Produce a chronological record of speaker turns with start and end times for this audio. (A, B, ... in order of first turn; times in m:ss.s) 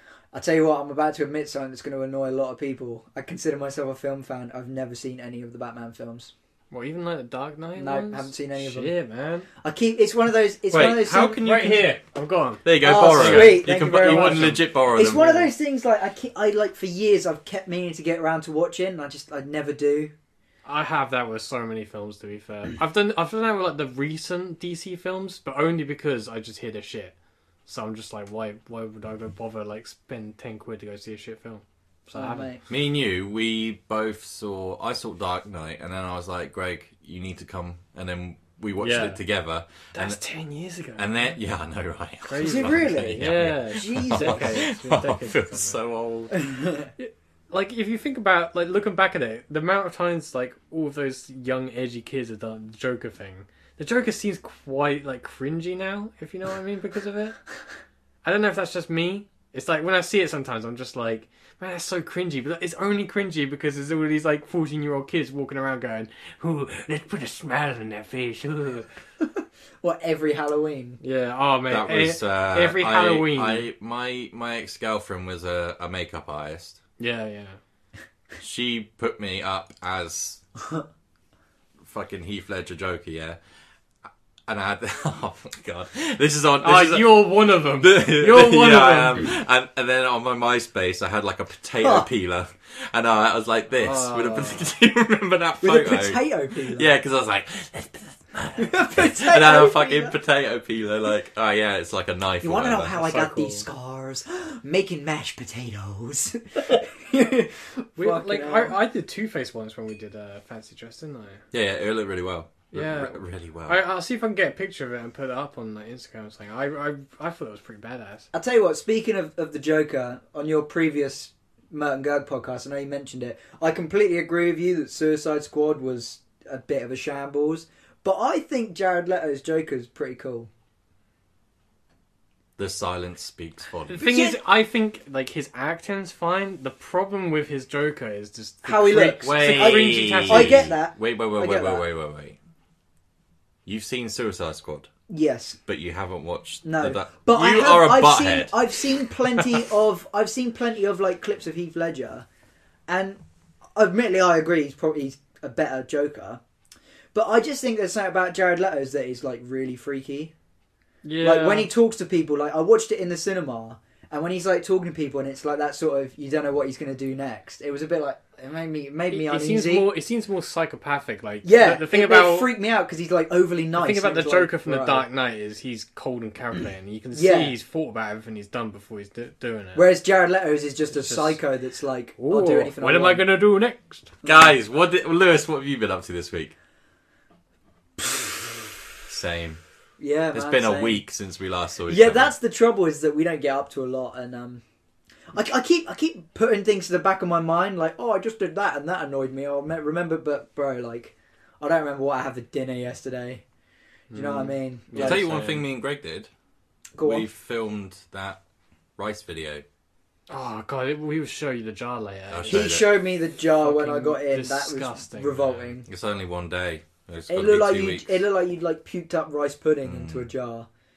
0:00.3-0:06.3 A
0:06.7-0:09.5 B
0:07.8-0:09.0 A
0:09.6-0:11.4 A
0:10.7-0:11.9 C
0:10.7-0:14.7 B
0:12.6-0:15.5 C
0:12.8-0:20.1 A
0:20.6-0:27.2 B
0:27.7-0:32.5 B
0:32.1-0:32.6 A
0:32.7-0:40.2 C
0:38.8-0:39.2 B
0:39.9-0:41.4 B
0:41.0-0:46.4 C
0:42.2-0:45.8 B
0:42.4-0:44.7 A
0:46.3-0:46.9 A
0:47.0-0:57.4 B
0:58.2-1:08.9 B
1:09.2-1:11.0 A
1:11.0-1:13.7 B
1:11.7-1:16.8 C
1:17.0-1:17.6 B
1:18.4-1:20.4 C
1:21.8-1:23.4 C
1:24.5-1:43.0 C
1:26.6-1:29.3 B
1:31.8-1:32.1 A
1:33.8-1:34.7 B
1:35.6-1:36.9 A
1:38.6-1:40.2 A
1:42.4-1:48.8 A
1:43.0-1:43.7 B
1:48.0-1:51.4 B
1:51.5-1:53.8 C
1:52.7-1:58.3 B
1:58.3-2:10.5 A
2:12.6-2:14.0 C
2:13.9-2:20.7 B
2:13.9-2:14.4 A
2:18.6-2:21.8 A
2:19.2-2:22.4 C
2:23.7-2:24.9 C
2:25.1-2:25.6 A
2:25.7-2:28.6 C
2:26.6-2:32.3 A
2:32.9-2:33.2 A
2:33.8-2:36.4 A
2:37.1-2:40.3 A
2:41.0-2:41.7 B
2:41.2-2:49.9 A
2:49.1-2:52.5 B
2:51.4-2:55.1 A
2:53.8-2:59.9 B
2:57.1-2:57.6 A
2:59.7-3:03.3 A
3:00.9-3:01.4 B
3:02.2-3:04.1 B
3:04.2-3:04.5 A
3:04.2-3:06.6 C
3:09.1-3:09.6 C
3:10.0-3:11.0 A
3:10.3-3:12.3 C
3:11.9-3:14.6 A
3:15.3-3:23.4 A
3:24.1-3:25.6 B
3:24.1-3:25.2 A
3:25.0-3:26.3 C
3:27.0-3:27.3 A
3:27.0-3:28.4 C
3:29.0-3:29.6 C
3:30.3-3:32.8 B
3:32.3-3:32.9 C
3:32.5-3:35.9 A
3:33.6-3:35.7 B
3:35.9-3:38.1 C
3:37.3-3:40.7 A
3:39.8-3:40.3 C